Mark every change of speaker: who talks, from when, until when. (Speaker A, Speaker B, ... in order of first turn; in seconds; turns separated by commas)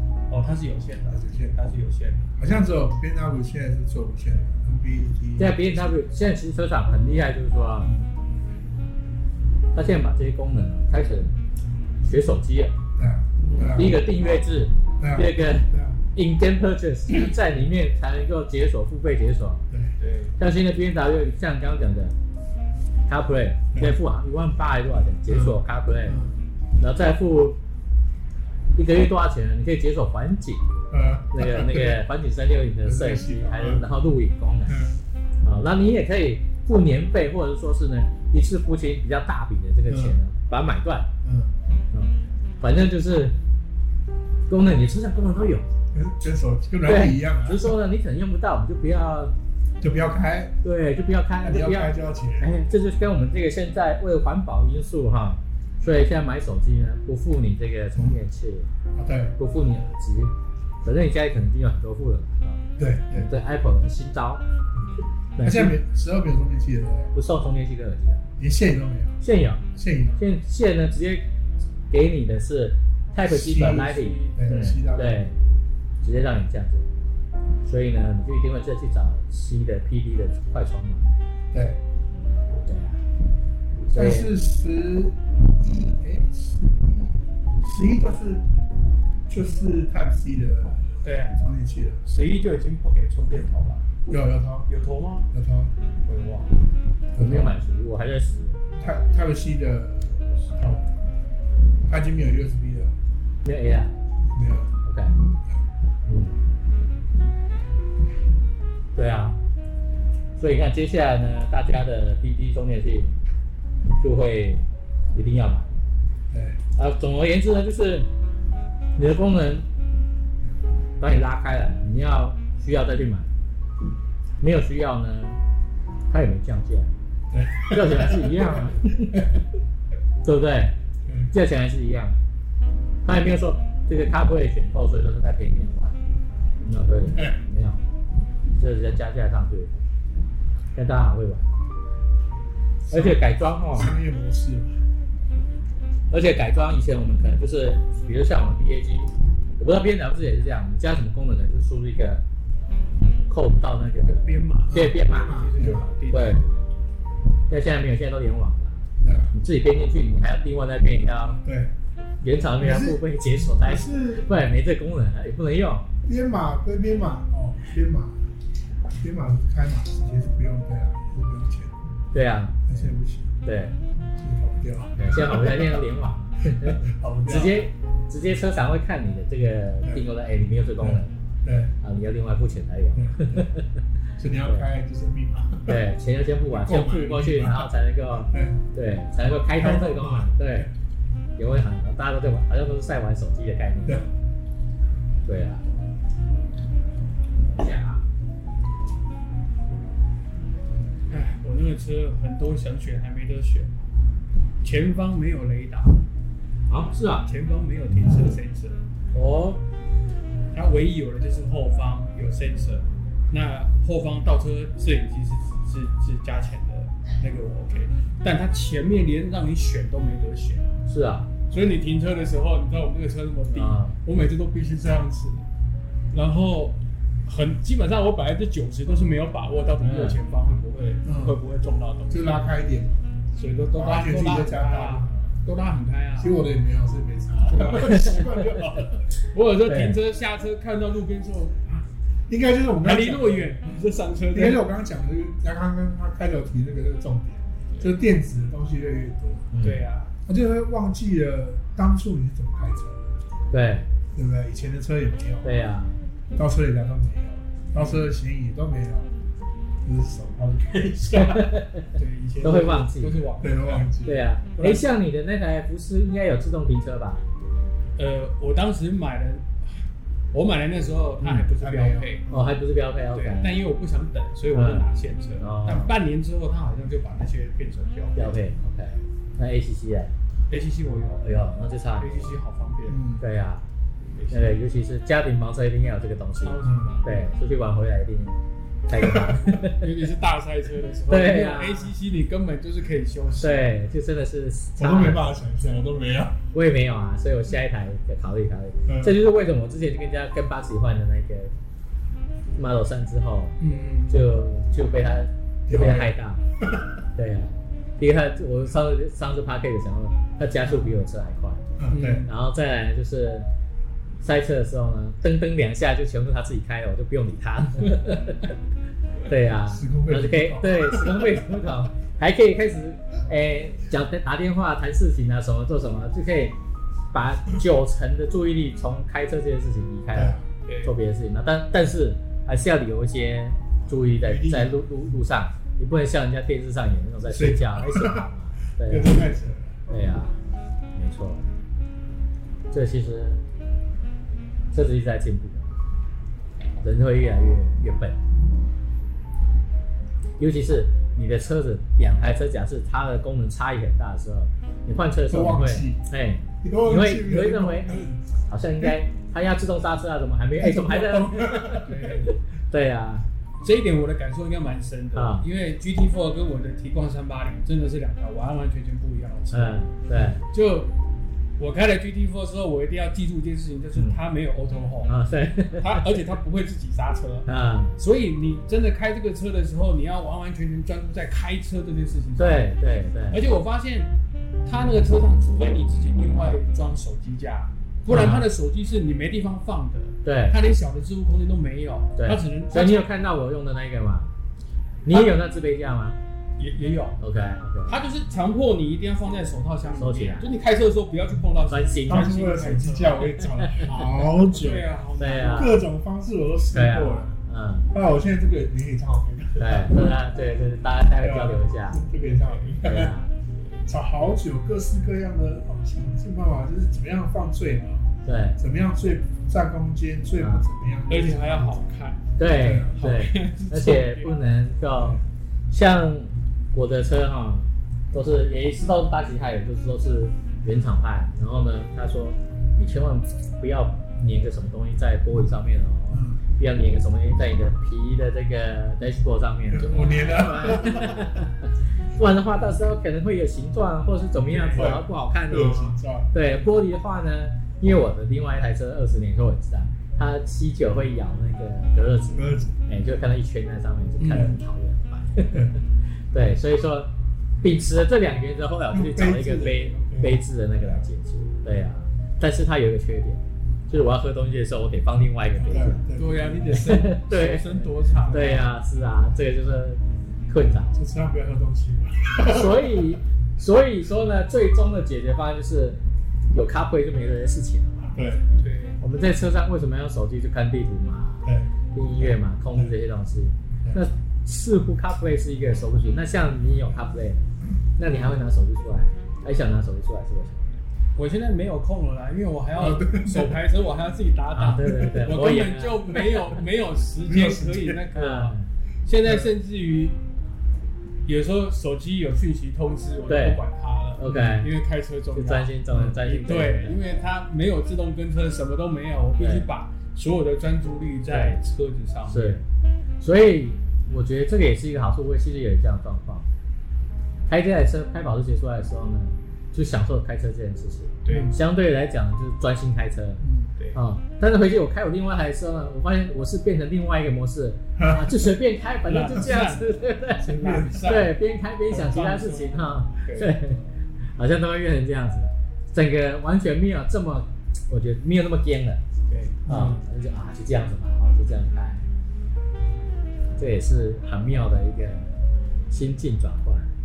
Speaker A: 0.3-2.3, Speaker B: 1.1-1.6, Speaker B: 2.4-6.1, Speaker C: 5.4-7.9, Speaker C: 9.7-11.3, Speaker C: 12.0-12.8, Speaker B: 13.0-14.0, Speaker C: 13.7-19.6, Speaker B: 15.0-16.0, Speaker A: 20.0-20.4, Speaker C: 20.4-22.1, Speaker C: 23.1-26.2, Speaker B: 25.3-26.3, Speaker C: 26.8-27.6, Speaker C: 28.8-30.6, Speaker B: 30.9-32.0, Speaker C: 31.3-34.8, Speaker B: 32.8-33.9, Speaker B: 34.7-34.9, Speaker C: 35.4-41.1, Speaker B: 39.9-40.2, Speaker B: 41.2-41.5, Speaker C: 41.9-43.4, Speaker C: 44.5-45.7, Speaker B: 45.9-47.8, Speaker C: 46.9-49.3, Speaker B: 49.8-50.6, Speaker C: 50.6-58.7, Speaker B: 51.4-52.5, Speaker B: 59.0-59.4, Speaker C: 59.4-60.3, Speaker C: 60.8-62.6, Speaker B: 62.8-63.3, Speaker C: 63.1-64.4, Speaker C: 65.4-65.8, Speaker B: 65.4-67.1, Speaker C: 67.1-68.2, Speaker B: 68.4-69.2, Speaker C: 69.2-69.6, Speaker B: 69.7-70.2, Speaker C: 70.2-71.2, Speaker C: 71.9-75.4, Speaker B: 73.2-75.2, Speaker A: 73.6-74.7, Speaker C: 76.0-76.9, Speaker C: 77.7-81.1, Speaker B: 81.5-81.8, Speaker C: 82.5-83.0, Speaker C: 83.9-84.3, Speaker B: 83.9-88.4, Speaker B: 89.3-92.0, Speaker A: 91.0-91.4, Speaker A: 92.1-93.9, Speaker B: 94.1-94.7, Speaker A: 94.7-95.3, Speaker B: 95.3-95.7, Speaker A: 96.0-96.5, Speaker B: 97.2-97.6, Speaker C: 97.2-98.6, Speaker B: 98.8-100.9, Speaker B: 101.8-103.0, Speaker C: 103.5-103.9, Speaker B: 104.3-104.7, Speaker C: 104.8-105.2, Speaker C: 106.1-106.4, Speaker C: 109.0-109.4, Speaker C: 110.4-113.2, Speaker C: 114.0-115.8, Speaker B: 116.3-116.6, Speaker C: 116.8-118.1, Speaker C: 119.0-119.7, Speaker C: 121.0-123.3, Speaker C: 124.4-125.4, Speaker C: 126.1-126.9, Speaker B: 127.3-129.4, Speaker C: 127.7-129.2, Speaker C: 130.2-130.7, Speaker B: 131.1-131.3, Speaker C: 131.3-132.2, Speaker C: 133.1-136.0, Speaker C: 136.6-137.8, Speaker B: 137.1-137.4, Speaker C: 138.6-139.8, Speaker C: 140.8-141.5, Speaker B: 142.9-144.8, Speaker C: 142.9-143.9, Speaker C: 146.1-152.2, Speaker C: 153.3-155.3, Speaker A: 154.0-156.6, Speaker B: 154.7-155.9, Speaker C: 156.1-156.4, Speaker C: 157.5-161.4, Speaker B: 159.0-159.3, Speaker B: 161.4-161.7, Speaker C: 162.2-165.9, Speaker B: 162.4-164.3, Speaker B: 166.1-168.2, Speaker B: 168.9-171.8, Speaker C: 172.1-172.9, Speaker B: 172.7-173.3, Speaker C: 173.4-173.8, Speaker B: 174.1-175.9, Speaker C: 175.0-181.1, Speaker B: 176.4-177.7, Speaker B: 180.8-181.7, Speaker C: 181.8-183.8, Speaker B: 182.9-183.5, Speaker B: 184.2-185.8, Speaker C: 185.7-190.7, Speaker B: 186.5-188.6, Speaker B: 189.3-190.7, Speaker C: 191.4-194.1, Speaker C: 195.3-195.6, Speaker C: 197.5-198.0, Speaker A: 201.1-203.7, Speaker A: 204.6-206.0, Speaker C: 206.7-207.3, Speaker A: 207.2-208.8, Speaker C: 209.1-209.6, Speaker A: 210.5-220.8, Speaker C: 220.9-221.3, Speaker A: 221.5-225.4, Speaker C: 223.5-224.0, Speaker A: 226.1-232.5, Speaker C: 229.8-230.2, Speaker B: 231.0-231.4, Speaker B: 232.1-233.0, Speaker A: 233.4-236.3, Speaker B: 233.7-235.3, Speaker B: 236.2-239.0, Speaker A: 239.3-241.8, Speaker C: 239.7-240.0, Speaker B: 242.3-243.7, Speaker A: 242.8-244.6, Speaker B: 244.3-249.5, Speaker C: 249.5-249.8, Speaker A: 249.6-250.1, Speaker B: 250.3-253.2, Speaker C: 253.5-253.9, Speaker B: 254.1-255.6, Speaker C: 255.4-256.0, Speaker B: 256.4-259.1, Speaker A: 257.8-258.1, Speaker B: 259.8-261.5, Speaker C: 261.2-261.9, Speaker A: 261.9-263.9, Speaker C: 262.4-263.2, Speaker B: 263.4-264.3, Speaker C: 264.0-267.2, Speaker A: 264.6-264.9, Speaker A: 268.0-269.7, Speaker A: 270.3-272.3, Speaker B: 271.2-272.5, Speaker C: 272.3-273.6, Speaker A: 273.1-278.4, Speaker C: 274.5-274.9, Speaker C: 275.4-275.9, Speaker C: 278.2-280.1, Speaker A: 280.5-281.4, Speaker C: 281.2-282.4, Speaker A: 282.0-283.0, Speaker B: 282.9-283.2, Speaker C: 283.2-283.6, Speaker A: 284.1-284.6, Speaker C: 284.3-288.4, Speaker A: 286.4-287.3, Speaker B: 286.6-287.0, Speaker C: 288.9-289.9, Speaker B: 288.9-289.4, Speaker A: 289.8-293.7, Speaker C: 291.1-291.9, Speaker C: 293.4-295.3, Speaker B: 294.8-296.4, Speaker C: 296.5-301.5, Speaker B: 298.9-299.2, Speaker C: 302.5-303.6, Speaker A: 303.6-304.2, Speaker C: 304.1-306.4, Speaker B: 305.7-307.0, Speaker C: 307.2-311.6, Speaker B: 311.8-312.3, Speaker A: 311.9-312.3, Speaker C: 312.2-313.5, Speaker C: 314.2-318.5, Speaker C: 319.3-326.6, Speaker B: 319.7-321.4, Speaker C: 327.1-339.2, Speaker B: 330.1-330.5, Speaker A: 330.7-330.9, Speaker B: 333.9-334.8, Speaker B: 337.2-339.8, Speaker C: 339.9-340.4, Speaker C: 341.0-341.5, Speaker C: 342.7-343.4, Speaker C: 344.7-345.7, Speaker C: 346.8-348.2, Speaker C: 350.4-361.9, Speaker B: 355.3-356.1, Speaker B: 356.6-358.2, Speaker B: 360.6-362.1, Speaker A: 361.8-362.4, Speaker C: 362.7-363.2, Speaker A: 363.6-369.8, Speaker C: 365.1-365.5, Speaker C: 369.5-370.4, Speaker A: 370.5-370.9, Speaker A: 371.6-375.1, Speaker C: 375.1-376.1, Speaker A: 375.8-382.7, Speaker C: 377.5-378.0, Speaker C: 382.4-383.4, Speaker A: 383.3-384.1, Speaker A: 384.6-393.1, Speaker C: 388.1-388.4, Speaker C: 390.2-390.6, Speaker C: 392.2-394.3, Speaker C: 395.1-396.2, Speaker A: 395.1-395.3, Speaker A: 396.6-397.2, Speaker C: 397.2-398.0, Speaker A: 397.9-403.4, Speaker C: 399.9-400.5, Speaker C: 401.7-402.3, Speaker B: 402.1-407.4, Speaker C: 403.6-403.9, Speaker A: 404.0-405.8, Speaker C: 405.2-405.8, Speaker C: 406.7-407.9, Speaker B: 407.9-410.1, Speaker C: 409.6-412.0, Speaker B: 411.2-413.1, Speaker A: 412.3-412.8, Speaker C: 412.8-413.3, Speaker B: 413.9-421.8, Speaker C: 418.2-418.6, Speaker C: 420.4-420.6, Speaker A: 421.1-422.3, Speaker C: 422.4-455.8, Speaker B: 422.4-423.1, Speaker A: 423.0-424.3, Speaker B: 425.0-425.2, Speaker B: 436.1-436.4, Speaker B: 439.7-441.3, Speaker B: 444.5-446.3, Speaker A: 444.5-444.9, Speaker B: 452.4-452.8, Speaker A: 454.2-454.6, Speaker B: 454.3-454.6, Speaker C: 456.3-457.1, Speaker C: 457.6-466.0, Speaker B: 458.9-461.1, Speaker B: 465.6-467.1, Speaker A: 466.2-468.7, Speaker C: 466.8-470.9, Speaker B: 468.2-468.7, Speaker B: 470.9-473.2, Speaker C: 472.4-476.0, Speaker C: 476.5-478.1, Speaker B: 478.1-478.4, Speaker A: 478.6-479.0, Speaker C: 479.0-487.4, Speaker B: 481.4-482.9, Speaker C: 488.0-490.7, Speaker A: 491.2-500.2, Speaker B: 492.8-493.6, Speaker C: 494.5-496.2, Speaker B: 495.0-495.3, Speaker B: 497.2-498.0, Speaker C: 498.1-498.7, Speaker B: 499.2-499.5, Speaker A: 501.3-512.6, Speaker C: 503.3-503.6, Speaker C: 504.2-504.7, Speaker B: 504.2-504.6, Speaker C: 505.3-507.2, Speaker C: 509.4-509.7, Speaker C: 511.3-511.6, Speaker C: 512.3-512.6, Speaker C: 513.2-516.5, Speaker C: 517.5-523.4, Speaker A: 521.2-521.6, Speaker B: 521.3-521.5, Speaker B: 523.4-523.7, Speaker C: 523.9-533.8, Speaker B: 528.0-528.5, Speaker A: 529.1-529.9, Speaker B: 530.4-531.3, Speaker A: 530.5-531.4, Speaker A: 531.9-533.5, Speaker C: 534.4-539.0, Speaker A: 539.3-539.6, Speaker B: 539.7-540.0, Speaker C: 539.7-542.0, Speaker C: 543.6-546.9